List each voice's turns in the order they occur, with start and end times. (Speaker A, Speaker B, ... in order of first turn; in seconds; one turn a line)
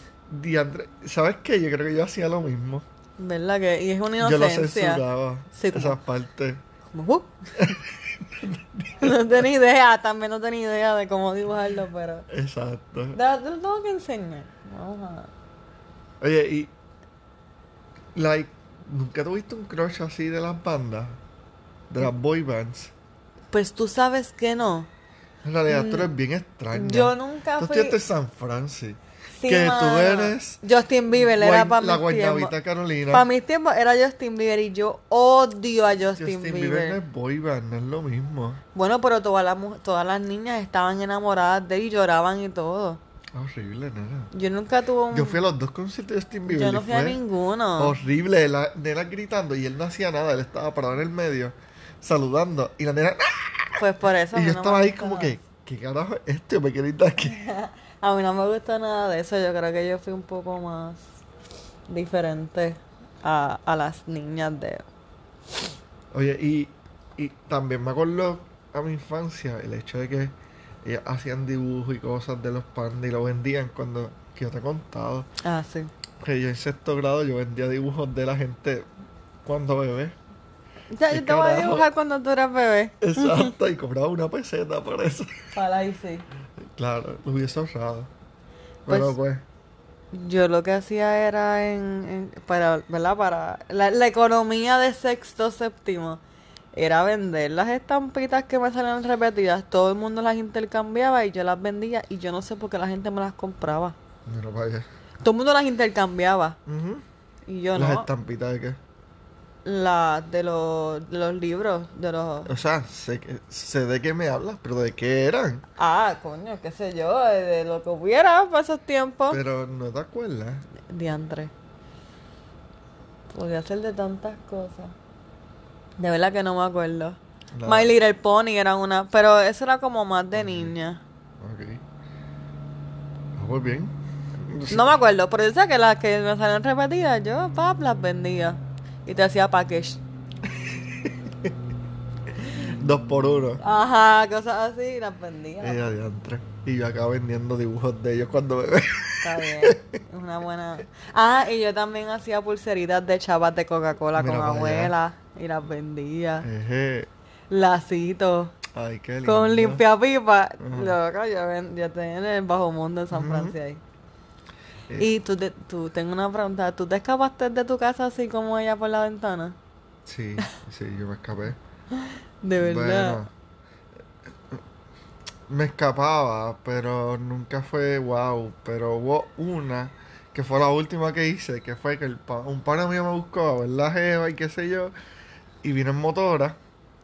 Speaker A: 0.3-2.8
Speaker B: 3.2-6.0
Speaker A: 4.2-6.6
Speaker B: 6.9-7.5
Speaker A: 7.6-9.3
Speaker B: 9.0-12.2
Speaker A: 12.3-13.2
Speaker B: 13.1-15.3
Speaker A: 16.2-16.7
Speaker A: 18.1-21.2
Speaker A: 21.9-22.9
Speaker B: 23.5-24.9
Speaker A: 25.4-30.6
Speaker B: 25.7-26.1
Speaker B: 26.7-28.0
Speaker B: 29.3-32.5
Speaker A: 31.1-33.3
Speaker B: 33.1-37.0
Speaker A: 36.1-38.6
Speaker B: 38.7-43.0
Speaker A: 43.3-44.3
Speaker B: 44.3-45.4
Speaker A: 45.1-47.2
Speaker B: 46.5-48.0
Speaker A: 47.8-57.4
Speaker B: 53.8-55.4
Speaker B: 57.2-61.1
Speaker B: 61.9-64.8
Speaker A: 66.1-75.3
Speaker B: 75.4-75.9
Speaker A: 76.2-78.9
Speaker A: 79.4-80.2
Speaker B: 80.9-83.5
Speaker A: 81.0-81.9
Speaker A: 83.0-85.5
Speaker B: 85.5-86.2
Speaker A: 86.8-88.1
Speaker A: 88.9-89.4
Speaker B: 88.9-89.2
Speaker B: 90.1-96.2
Speaker B: 96.7-104.0
Speaker A: 104.2-104.8
Speaker B: 105.2-106.6
Speaker A: 106.7-107.0
Speaker B: 107.5-108.1
Speaker A: 107.7-108.8
Speaker B: 109.6-112.5
Speaker A: 112.5-115.6
Speaker B: 115.8-119.4
Speaker A: 119.3-120.7
Speaker B: 120.8-121.5
Speaker B: 123.3-124.9
Speaker B: 126.0-131.0
Speaker A: 127.5-127.9
Speaker A: 130.3-130.8
Speaker A: 131.4-131.8
Speaker A: 133.3-135.0
Speaker B: 134.7-140.0
Speaker A: 140.7-141.5
Speaker A: 142.4-143.6
Speaker B: 143.6-145.9
Speaker A: 145.6-149.8
Speaker B: 149.2-156.5
Speaker A: 154.1-154.9
Speaker A: 156.4-157.1
Speaker B: 157.5-158.5
Speaker A: 158.7-159.8
Speaker B: 159.2-163.8
Speaker A: 160.6-161.0
Speaker A: 163.1-163.6
Speaker B: 165.0-169.6
Speaker A: 170.1-171.6
Speaker B: 172.0-173.2
Speaker A: 172.6-173.3
Speaker A: 175.5-184.9
Speaker A: 185.6-186.6